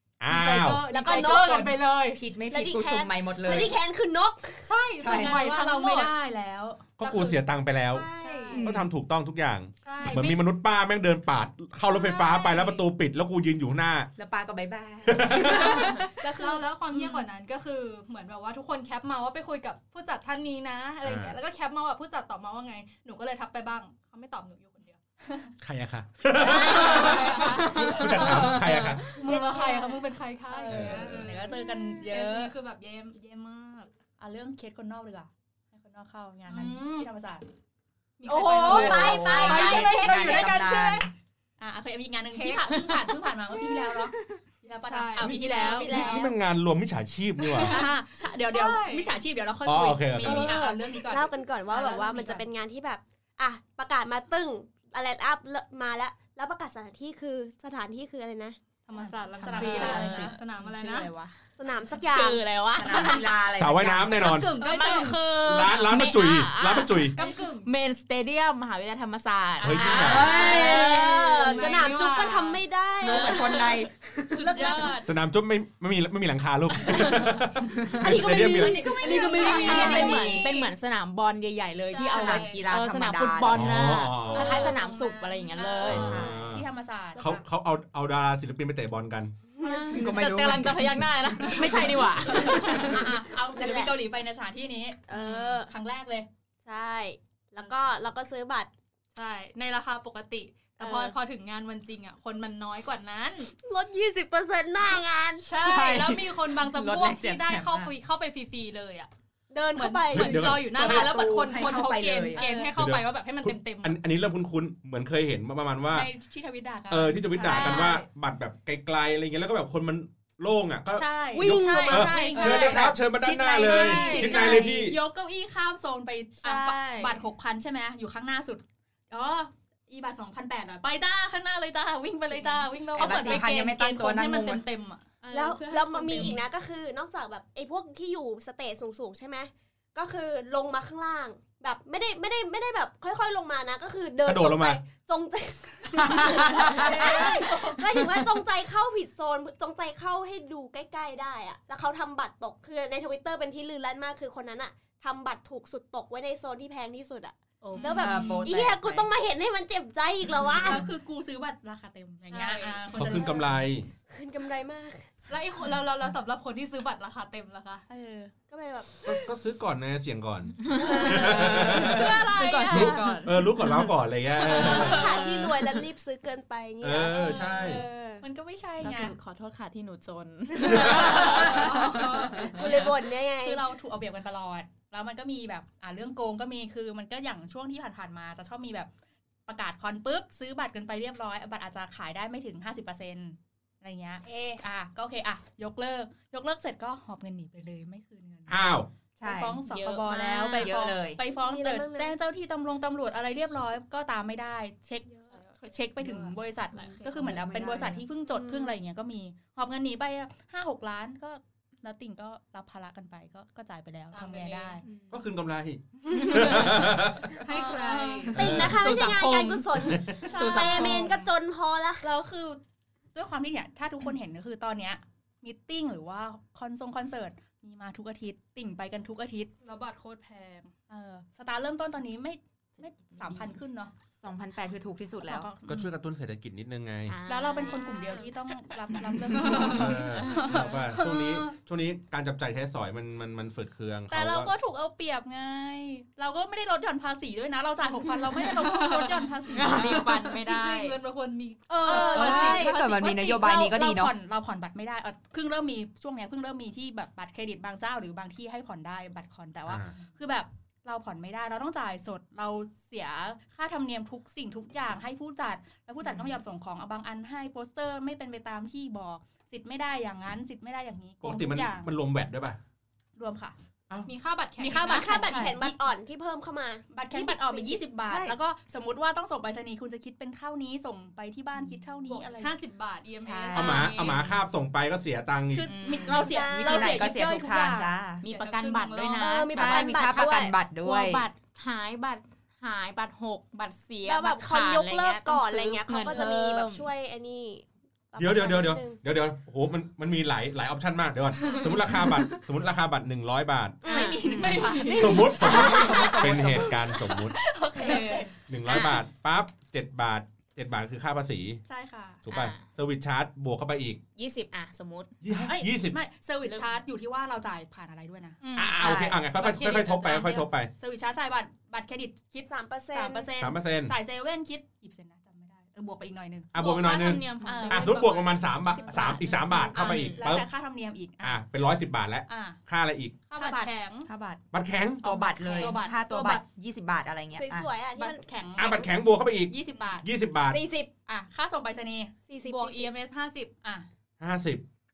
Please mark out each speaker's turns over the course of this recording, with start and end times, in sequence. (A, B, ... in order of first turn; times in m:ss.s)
0:00.2-0:00.9 A
0:00.3-0:02.2 B
0:00.9-0:01.8 C
0:01.1-0:03.7 D
0:02.5-0:04.7 C
0:04.6-0:06.2 B
0:05.0-0:05.4 D
0:05.0-0:06.9 E
0:07.0-0:08.1 A
0:07.0-0:08.7 B
0:08.2-0:08.6 E
0:08.5-0:08.9 D
0:08.6-0:14.1 A
0:09.8-0:10.5 B
0:11.9-0:12.9 B
0:14.2-0:16.1 D
0:15.0-0:15.8 A
0:15.4-0:25.5 B
0:15.5-0:16.0 E
0:16.9-0:17.2 E
0:21.0-0:21.4 A
0:25.6-0:29.2 A
0:26.4-0:33.9 B
0:26.4-0:28.3 E
0:27.8-0:29.0 D
0:29.2-0:30.1 C
0:30.5-0:32.5 E
0:30.7-0:31.3 A
0:31.5-0:32.0 D
0:34.2-0:37.4 E
0:36.5-0:37.1 B
0:38.2-0:41.0 B
0:38.2-0:40.3 C
0:38.6-0:41.1 D
0:41.6-0:46.3 E
0:42.3-0:43.2 B
0:44.8-0:46.1 B
0:45.3-0:46.3 C
0:46.0-0:47.9 A
0:47.6-0:49.2 B
0:47.6-0:52.5 E
0:49.6-0:50.6 A
0:50.2-0:58.6 C
0:58.9-1:01.1 B
0:58.9-1:00.4 E
0:59.4-1:01.3 F
1:01.6-1:02.4 C
1:01.9-1:03.3 F
1:02.8-1:04.4 D
1:02.9-1:03.3 B
1:03.5-1:04.6 A
1:04.1-1:05.9 B
1:04.6-1:10.6 F
1:05.3-1:07.2 A
1:07.0-1:07.7 B
1:09.6-1:10.4 A
1:09.6-1:12.6 B
1:09.7-1:10.8 E
1:09.9-1:11.4 D
1:10.3-1:13.8 C
1:13.0-1:14.7 D
1:14.4-1:15.1 E
1:14.5-1:15.0 B
1:15.0-1:19.0 A
1:17.8-1:20.5 D
1:18.0-1:20.3 C
1:18.6-1:20.5 E
1:18.7-1:20.6 B
1:19.1-1:26.3 F
1:21.9-1:22.7 B
1:22.1-1:23.8 D
1:23.5-1:24.7 A
1:24.1-1:26.4 B
1:24.3-1:24.8 E
1:25.7-1:27.4 E
1:25.8-1:29.3 A
1:25.9-1:26.3 D
1:29.5-1:30.0 C
1:29.6-1:33.0 F
1:29.9-1:31.8 D
1:31.7-1:36.3 E
1:32.4-1:32.9 D
1:33.5-1:34.0 C
1:35.1-1:35.7 C
1:36.6-1:38.7 C
1:39.1-1:43.5 B
1:40.8-1:41.1 C
1:43.6-1:45.5 C
1:45.4-1:49.1 B
1:45.6-1:47.9 D
1:49.5-1:50.6 C
1:49.8-1:54.0 B
1:50.1-1:51.1 A
1:50.7-1:52.5 D
1:52.4-1:52.7 E
1:52.8-1:56.1 A
1:55.9-1:58.0 E
1:56.9-2:05.0 A
1:57.3-1:57.9 D
2:01.0-2:02.8 E
2:01.4-2:02.4 C
2:01.4-2:02.8 B
2:02.4-2:04.9 D
2:03.6-2:13.5 E
2:03.7-2:04.6 B
2:06.4-2:07.2 B
2:12.4-2:15.2 B
2:13.0-2:14.6 D
2:15.2-2:16.4 E
2:15.3-2:40.9 C
2:24.2-2:24.8 A
2:26.1-2:27.0 D
2:26.4-2:27.8 B
2:26.7-2:27.6 E
2:37.6-2:38.0 F
2:37.8-2:38.5 E
2:37.9-2:39.1 D
2:40.6-2:43.5 E
2:42.3-2:43.3 B
2:42.9-2:43.9 A
2:44.1-2:45.1 C
2:45.3-2:47.8 B
2:47.9-2:48.3 E
2:48.5-2:49.2 C
2:49.0-2:55.3 A
2:50.8-2:52.1 C
2:50.9-2:53.9 D
2:51.9-2:53.0 B
2:52.7-2:53.0 E
2:54.4-2:58.2 C
2:54.6-2:55.0 E
2:56.8-2:57.8 A
2:57.1-2:59.2 E
2:58.8-3:02.0 F
3:00.6-3:01.0 A
3:00.7-3:08.9 E
3:00.8-3:01.5 C
3:00.9-3:02.5 B
3:01.2-3:01.6 D
3:02.4-3:03.6 C
3:09.5-3:18.6 E
3:18.5-3:18.9 A
3:19.2-3:19.6 D
3:19.2-3:34.9 E
3:19.7-3:20.8 F
3:20.6-3:21.2 D
3:21.2-3:22.1 C
3:27.0-3:28.0 D
3:28.3-3:28.8 C
3:34.1-3:34.8 B
3:35.1-3:37.4 A
3:36.1-3:38.4 E
3:37.3-3:38.5 B
3:38.3-3:38.8 A
3:38.4-3:42.1 C
3:38.5-3:41.2 F
3:39.9-3:40.2 A
3:40.2-3:40.9 B
3:40.2-3:41.2 E
3:42.0-3:42.6 E
3:43.1-3:49.5 E
3:49.6-3:50.7 B
3:50.9-3:53.9 E
3:53.2-3:53.5 F
3:54.2-3:55.5 D
3:55.2-3:55.9 E
3:55.6-3:57.2 A
3:57.1-3:58.3 F
3:57.3-4:01.5 E
3:59.3-4:00.7 B
3:59.6-4:04.5 A
4:04.1-4:10.0 E
4:08.0-4:12.9 B
4:09.5-4:11.0 F
4:11.8-4:31.9 E
4:11.9-4:14.1 D
4:11.9-4:12.2 C
4:19.7-4:20.0 A
4:31.2-4:32.6 A
4:33.2-4:33.5 E
4:34.0-4:35.4 B
4:34.6-4:35.8 E
4:34.9-4:37.8 C
4:35.3-4:35.5 D
4:36.9-4:42.6 E
4:38.0-4:38.4 D
4:42.1-4:44.4 B
4:43.5-4:45.8 A
4:45.5-4:48.0 E
4:45.7-4:46.3 F
4:45.9-4:46.9 B
4:46.1-4:48.2 D
4:48.2-4:56.9 F
4:48.2-4:49.4 B
4:49.2-4:50.5 C
4:49.5-4:51.3 D
4:54.0-4:59.0 C
4:58.2-5:03.8 A
5:03.8-5:04.4 C
5:03.9-5:08.3 E
5:03.9-5:04.2 F
5:04.2-5:05.3 B
5:04.3-5:06.9 D
5:04.9-5:07.4 A
5:07.5-5:08.4 B
5:08.5-5:11.6 A
5:08.7-5:08.9 F
5:11.7-5:12.2 E
5:12.2-5:14.0 A
5:12.3-5:12.6 F
5:14.2-5:15.1 F
5:15.2-5:16.0 A
5:15.4-5:18.4 E
5:18.4-5:18.8 B
5:18.6-5:20.7 A
5:18.8-5:19.2 D
5:19.0-5:26.5 E
5:22.5-5:23.3 C
5:23.4-5:24.0 A
5:26.5-5:30.5 A
5:26.6-5:28.5 B
5:27.4-5:31.4 E
5:29.7-5:30.2 F
5:31.2-5:33.2 A
5:32.3-5:32.6 E
5:33.3-5:34.1 B
5:33.3-5:33.7 E
5:34.0-5:34.4 D
5:34.5-5:35.1 A
5:35.0-5:37.7 D
5:35.0-5:36.4 E
5:35.5-5:36.4 B
5:37.3-5:38.2 C
5:38.0-5:38.9 E
5:38.6-5:40.6 A
5:39.5-5:40.1 E
5:40.5-5:40.9 C
5:41.1-5:42.1 E
5:42.3-5:42.9 C
5:42.4-5:43.5 B
5:44.2-5:44.6 A